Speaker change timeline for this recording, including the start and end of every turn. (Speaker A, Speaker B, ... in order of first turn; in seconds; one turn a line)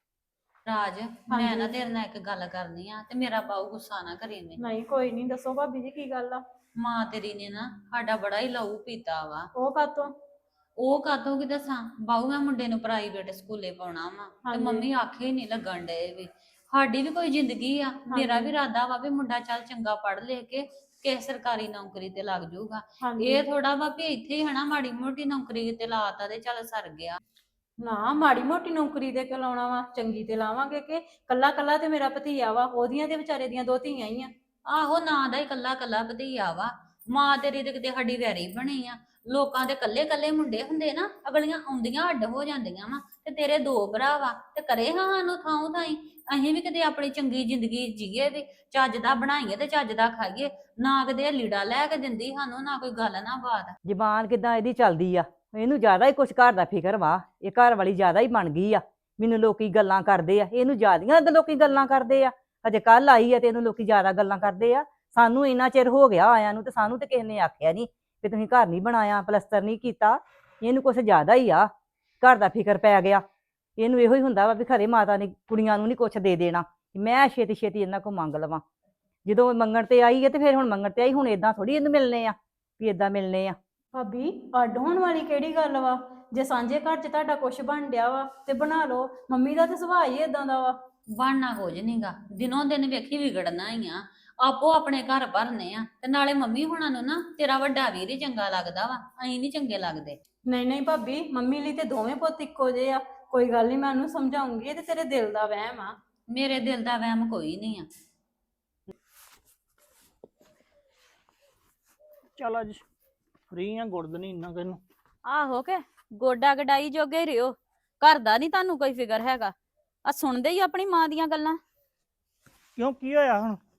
Speaker A: 0.7-4.6
Speaker B: 1.3-1.7
Speaker B: 4.6-6.4
Speaker A: 6.8-9.5
Speaker B: 9.6-10.2
Speaker A: 10.8-27.2
Speaker B: 14.4-14.9
Speaker B: 18.1-18.5
Speaker B: 23.0-23.4
Speaker B: 27.8-34.3
Speaker A: 34.7-53.8
Speaker C: 53.9-73.2
Speaker C: 73.8-78.6
Speaker C: 79.2-83.6
Speaker B: 83.9-90.8
Speaker A: 91.1-100.2
Speaker B: 100.5-106.0
Speaker A: 106.3-107.9
Speaker D: 112.4-112.8
Speaker D: 113.5-114.8
Speaker E: 115.3-121.6
Speaker D: 122.8-123.6